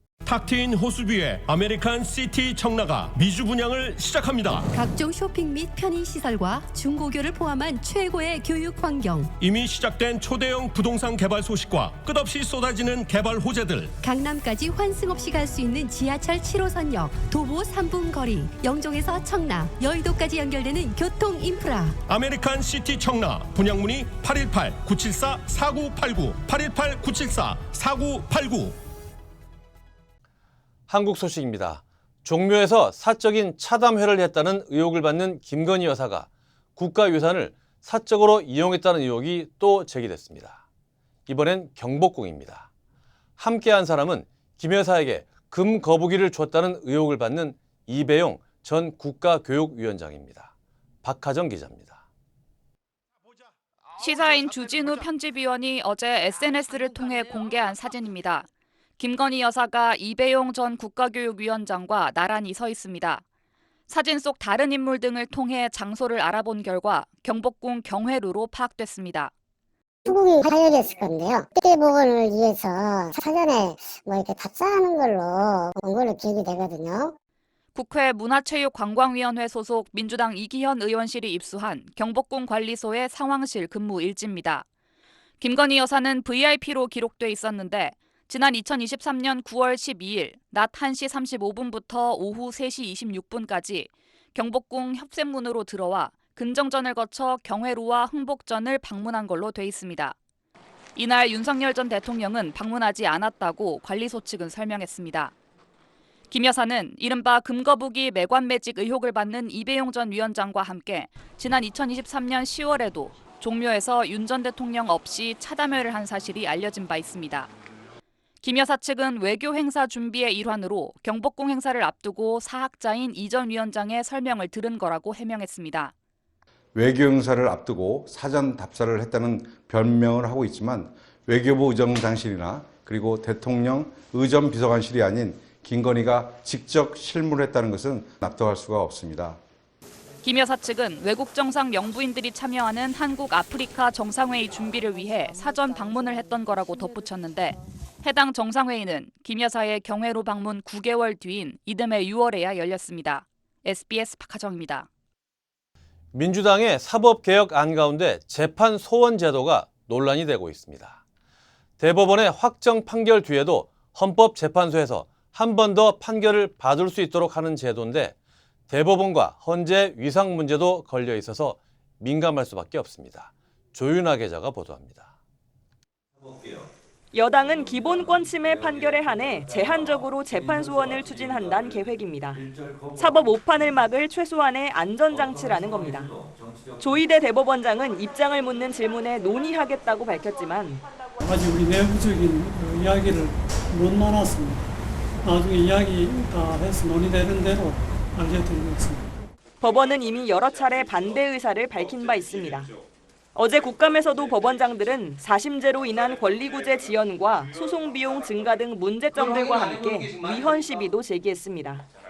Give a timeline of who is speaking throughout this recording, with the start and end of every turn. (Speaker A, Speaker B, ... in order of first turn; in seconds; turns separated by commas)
Speaker A: 0.2-4.7, Speaker B: 4.7-9.3, Speaker A: 9.4-14.0, Speaker B: 14.0-21.9, Speaker A: 22.1-28.8, Speaker C: 30.9-40.6, Speaker C: 41.3-42.7, Speaker C: 43.4-50.5, Speaker C: 51.0-52.0, Speaker D: 54.0-58.5, Speaker D: 59.0-63.2, Speaker D: 63.9-69.3, Speaker E: 70.0-77.1, Speaker D: 77.8-84.6, Speaker D: 85.4-100.2, Speaker D: 101.0-105.3, Speaker D: 106.3-117.5, Speaker D: 118.4-125.9, Speaker F: 126.8-139.4, Speaker D: 140.2-154.9, Speaker C: 156.1-161.0, Speaker C: 161.8-168.2, Speaker C: 168.7-175.1, Speaker G: 177.1-186.2, Speaker G: 186.8-190.8, Speaker H: 191.2-194.7, Speaker H: 195.2-199.1, Speaker G: 199.6-202.7, Speaker G: 203.3-211.8